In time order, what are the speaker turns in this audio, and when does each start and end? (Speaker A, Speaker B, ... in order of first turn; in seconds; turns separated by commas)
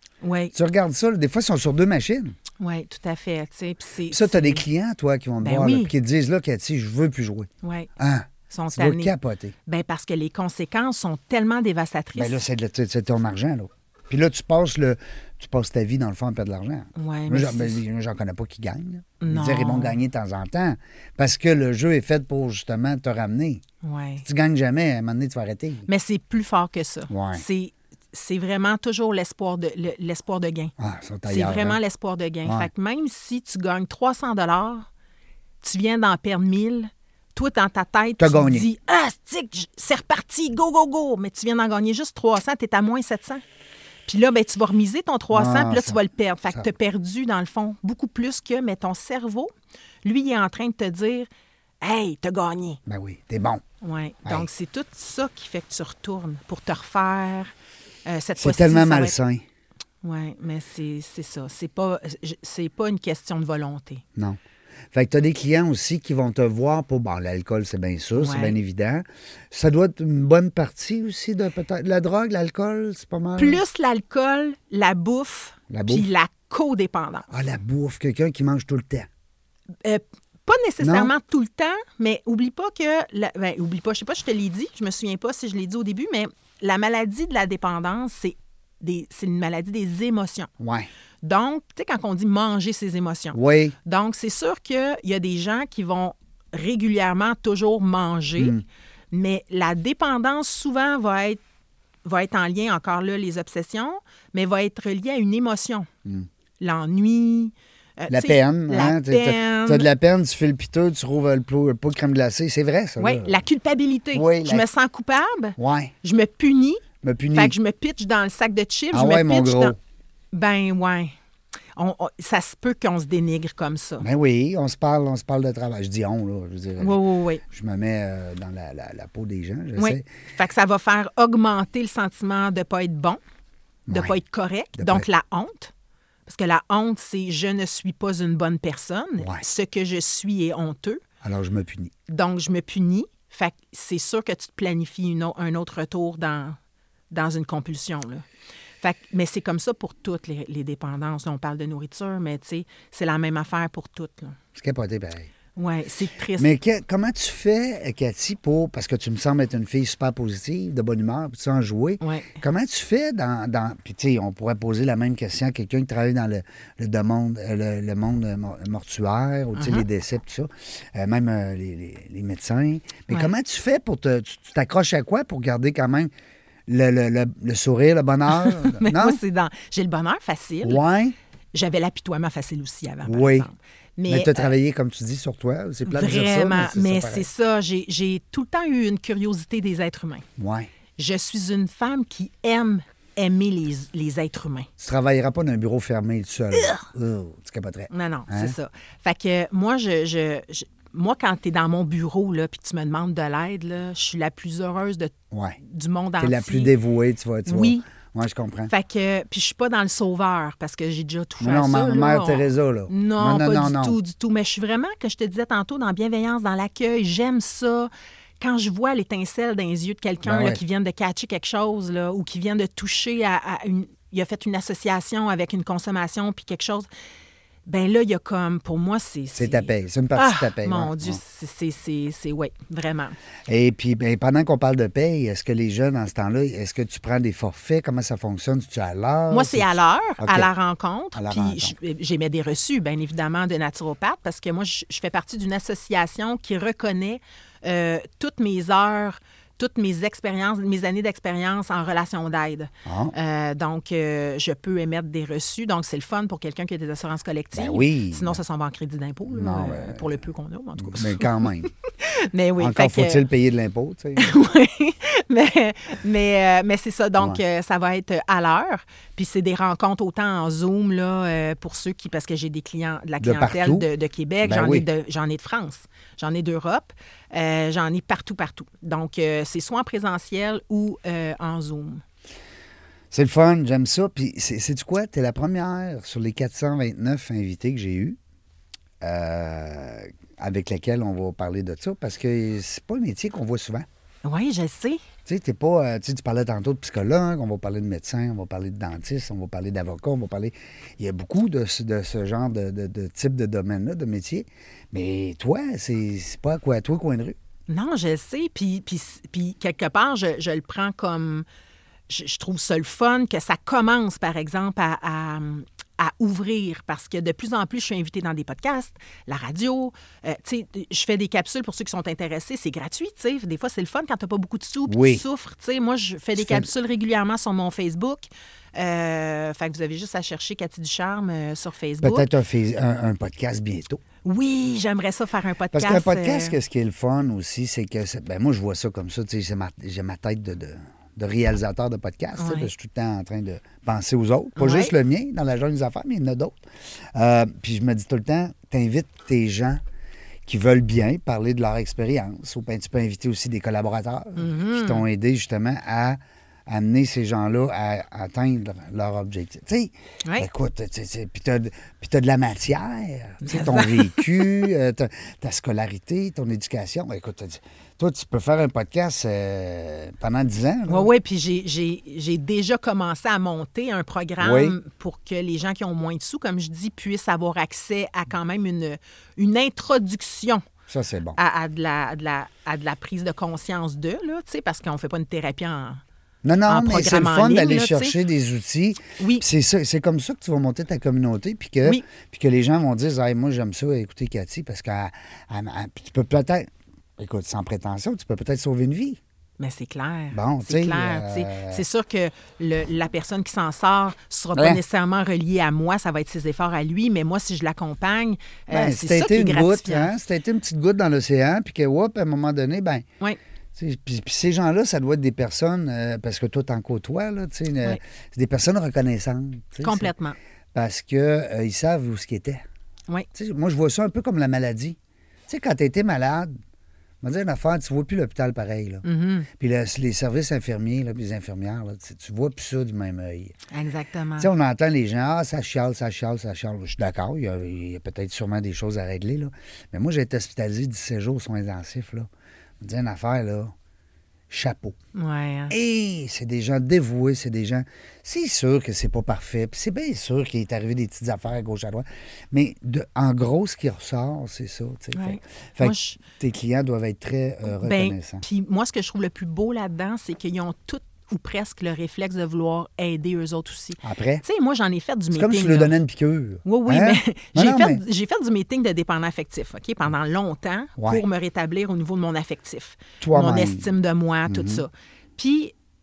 Speaker A: 0.2-0.5, Speaker B: 0.5-2.4, Speaker A: 2.6-4.6, Speaker B: 4.1-9.6, Speaker A: 5.4-5.9, Speaker A: 7.6-7.9, Speaker A: 8.5-9.1, Speaker A: 9.7-12.4, Speaker B: 12.2-23.6, Speaker A: 17.0-17.8, Speaker A: 19.2-20.0, Speaker A: 23.8-24.2, Speaker B: 24.2-25.9, Speaker A: 25.9-30.7, Speaker B: 27.1-27.4, Speaker B: 30.8-31.8, Speaker A: 31.3-34.9, Speaker B: 32.5-32.7, Speaker A: 35.6-43.4, Speaker B: 38.2-38.7, Speaker A: 44.1-49.5, Speaker B: 45.3-46.0, Speaker A: 50.0-51.3, Speaker A: 51.8-52.8, Speaker B: 52.9-53.6, Speaker A: 53.8-57.5, Speaker A: 58.1-59.2, Speaker B: 58.4-59.4, Speaker A: 60.0-64.0, Speaker B: 64.9-73.6, Speaker A: 68.2-68.6, Speaker A: 73.4-77.3, Speaker B: 75.7-76.1, Speaker B: 77.3-79.1, Speaker A: 79.8-90.5, Speaker B: 80.8-81.1, Speaker B: 90.6-90.9, Speaker A: 91.2-98.6, Speaker B: 93.3-93.8, Speaker B: 98.4-98.6, Speaker A: 99.1-101.4, Speaker A: 102.0-105.9, Speaker A: 106.6-109.9, Speaker B: 108.1-113.4, Speaker A: 113.0-119.8, Speaker B: 114.1-114.7, Speaker B: 115.6-115.9, Speaker B: 117.0-117.5, Speaker B: 118.9-119.8, Speaker A: 120.3-121.1, Speaker A: 121.8-124.1, Speaker B: 124.0-130.1, Speaker A: 126.8-127.4, Speaker A: 129.8-133.2, Speaker B: 133.9-134.2, Speaker A: 133.9-135.7, Speaker B: 134.8-135.1, Speaker A: 136.3-141.0, Speaker B: 141.2-141.9, Speaker A: 142.1-146.6, Speaker A: 147.1-148.2, Speaker A: 148.8-154.4, Speaker B: 154.6-155.3, Speaker A: 155.6-156.5, Speaker B: 156.4-176.1, Speaker A: 162.0-162.4, Speaker A: 169.6-169.9, Speaker B: 176.7-179.2, Speaker A: 178.3-180.8, Speaker B: 180.6-181.2, Speaker A: 181.5-184.5, Speaker B: 183.1-183.5, Speaker B: 184.1-187.3, Speaker A: 185.9-190.2, Speaker B: 190.4-190.7, Speaker A: 191.0-194.7, Speaker B: 194.8-198.6, Speaker A: 197.9-206.7, Speaker B: 205.3-205.6, Speaker B: 206.2-208.7, Speaker A: 207.5-207.8, Speaker A: 208.7-226.9, Speaker B: 211.4-214.0, Speaker B: 220.2-220.6, Speaker A: 227.7-233.2, Speaker B: 229.3-231.2, Speaker B: 233.5-240.5, Speaker A: 239.3-263.2, Speaker B: 241.2-241.8, Speaker B: 252.8-253.1, Speaker B: 257.6-258.4, Speaker B: 259.3-260.2, Speaker B: 260.8-261.7, Speaker B: 262.6-264.4, Speaker A: 264.2-282.0, Speaker B: 273.2-273.9, Speaker B: 274.4-274.9, Speaker B: 283.1-288.2, Speaker B: 289.0-293.9, Speaker A: 294.2-295.0, Speaker B: 295.3-307.4, Speaker A: 307.7-311.4, Speaker A: 312.1-332.3, Speaker B: 324.9-325.2, Speaker B: 326.4-326.7, Speaker B: 332.0-334.0, Speaker A: 334.2-336.6, Speaker B: 335.7-346.6, Speaker A: 342.4-342.7, Speaker A: 344.6-344.9, Speaker B: 347.1-349.8, Speaker B: 350.5-371.1, Speaker A: 354.4-355.1, Speaker A: 363.4-364.5, Speaker A: 370.9-380.6, Speaker B: 374.4-374.8, Speaker B: 380.9-381.4, Speaker A: 381.4-386.0, Speaker B: 386.4-399.2, Speaker A: 386.7-388.2, Speaker A: 389.2-389.4, Speaker A: 399.6-410.1, Speaker B: 400.3-401.8, Speaker B: 404.6-404.8, Speaker B: 408.7-413.1, Speaker B: 413.8-420.1, Speaker A: 419.8-420.4, Speaker B: 420.7-422.6, Speaker B: 423.3-425.0, Speaker B: 425.5-426.5, Speaker B: 427.2-429.0, Speaker A: 429.0-429.5, Speaker B: 429.6-433.5, Speaker A: 433.7-434.5, Speaker B: 434.4-442.3, Speaker B: 442.8-443.7, Speaker B: 444.5-445.0, Speaker A: 445.1-445.7, Speaker B: 445.7-458.4, Speaker A: 455.1-456.2, Speaker A: 457.7-465.9, Speaker B: 464.0-464.4, Speaker B: 465.3-468.0, Speaker A: 466.6-475.7, Speaker B: 471.0-471.2, Speaker B: 473.2-473.9, Speaker B: 474.5-474.8